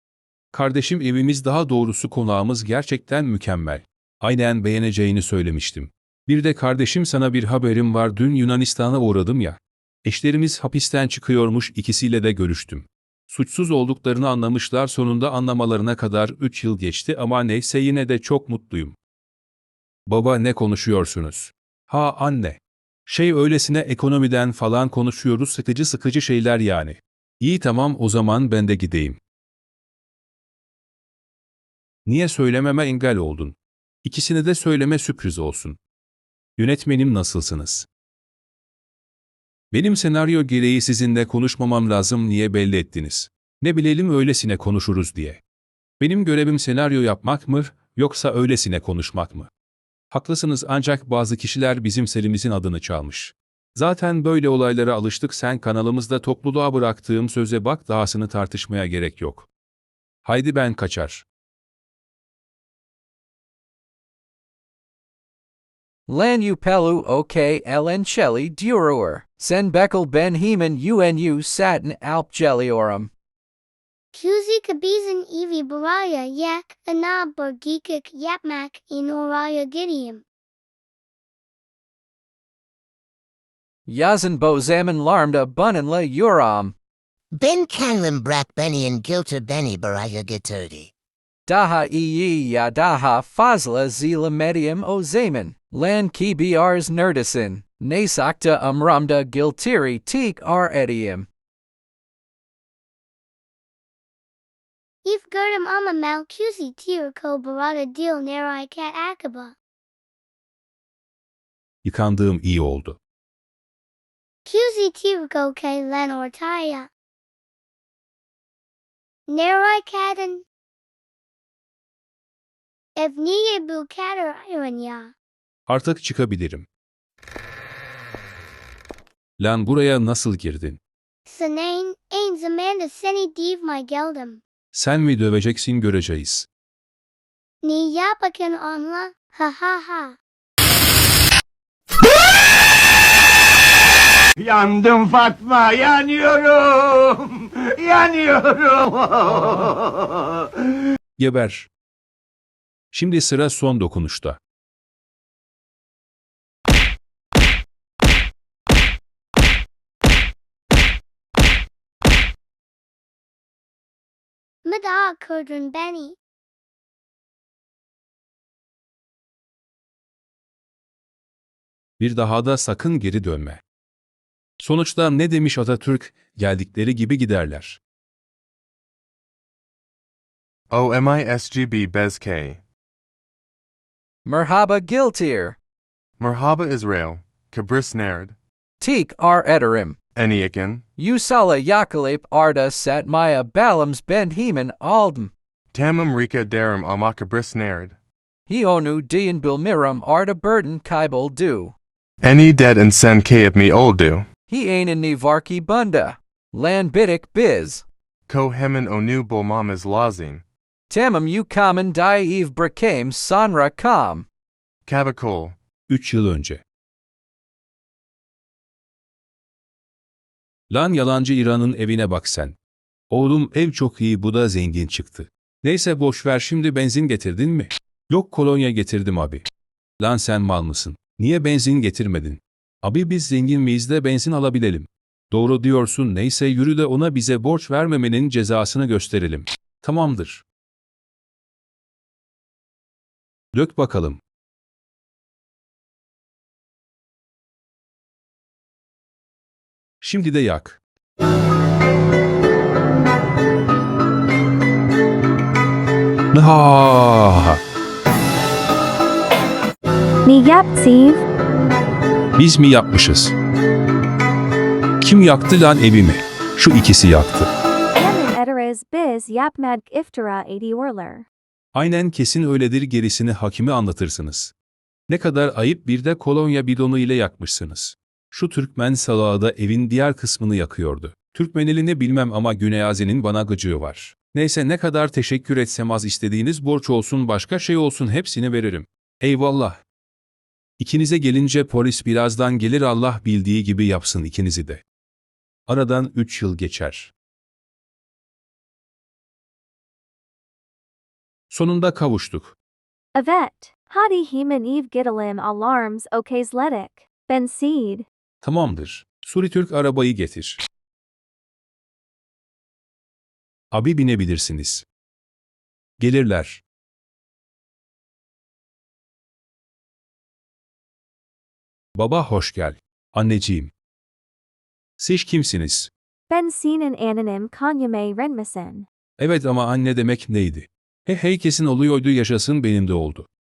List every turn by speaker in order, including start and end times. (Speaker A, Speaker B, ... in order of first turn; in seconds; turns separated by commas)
Speaker A: 0.5-19.0, Speaker A: 20.1-29.2, Speaker A: 32.1-35.8, Speaker A: 36.6-37.9, Speaker A: 39.7-45.4, Speaker A: 46.0-49.5, Speaker A: 50.1-59.5, Speaker A: 60.2-61.2, Speaker B: 66.1-73.1, Speaker C: 74.1-80.2, Speaker B: 83.9-86.8, Speaker D: 87.4-90.9, Speaker B: 91.5-101.3, Speaker C: 105.0-109.6, Speaker A: 111.8-113.0, Speaker C: 114.5-116.9, Speaker C: 119.3-120.5, Speaker C: 123.0-125.1, Speaker A: 125.7-126.7, Speaker A: 129.4-130.8, Speaker C: 131.3-134.4, Speaker A: 134.7-136.5, Speaker C: 137.6-140.2, Speaker E: 144.4-147.2, Speaker E: 147.8-149.8, Speaker A: 151.2-151.7, Speaker A: 152.9-154.4, Speaker C: 164.7-166.2, Speaker A: 172.0-173.6, Speaker A: 174.6-177.8, Speaker F: 180.8-182.5, Speaker B: 184.2-185.6, Speaker F: 186.2-188.3, Speaker D: 187.1-187.4, Speaker B: 188.8-190.0, Speaker F: 190.2-190.8, Speaker B: 191.0-195.3, Speaker F: 195.8-197.8, Speaker B: 198.5-201.8, Speaker F: 202.3-204.2, Speaker B: 204.5-207.8, Speaker F: 208.3-210.4, Speaker B: 210.9-214.3, Speaker D: 214.9-215.5, Speaker F: 214.9-215.3, Speaker A: 215.9-216.6, Speaker A: 220.7-222.6, Speaker A: 223.1-229.4, Speaker A: 230.0-240.4, Speaker A: 243.5-244.2, Speaker A: 250.0-250.8, Speaker A: 256.3-257.6, Speaker G: 260.3-261.2, Speaker A: 262.4-263.4, Speaker A: 265.0-267.5, Speaker G: 268.0-271.3, Speaker A: 271.7-274.5, Speaker A: 275.1-289.8, Speaker A: 290.8-294.8, Speaker A: 295.7-297.1, Speaker A: 301.5-302.6, Speaker G: 303.1-308.1, Speaker A: 308.4-310.6, Speaker A: 313.7-314.9, Speaker A: 316.0-316.6, Speaker A: 322.0-323.7, Speaker A: 325.0-325.9, Speaker G: 326.3-328.9, Speaker A: 329.2-333.3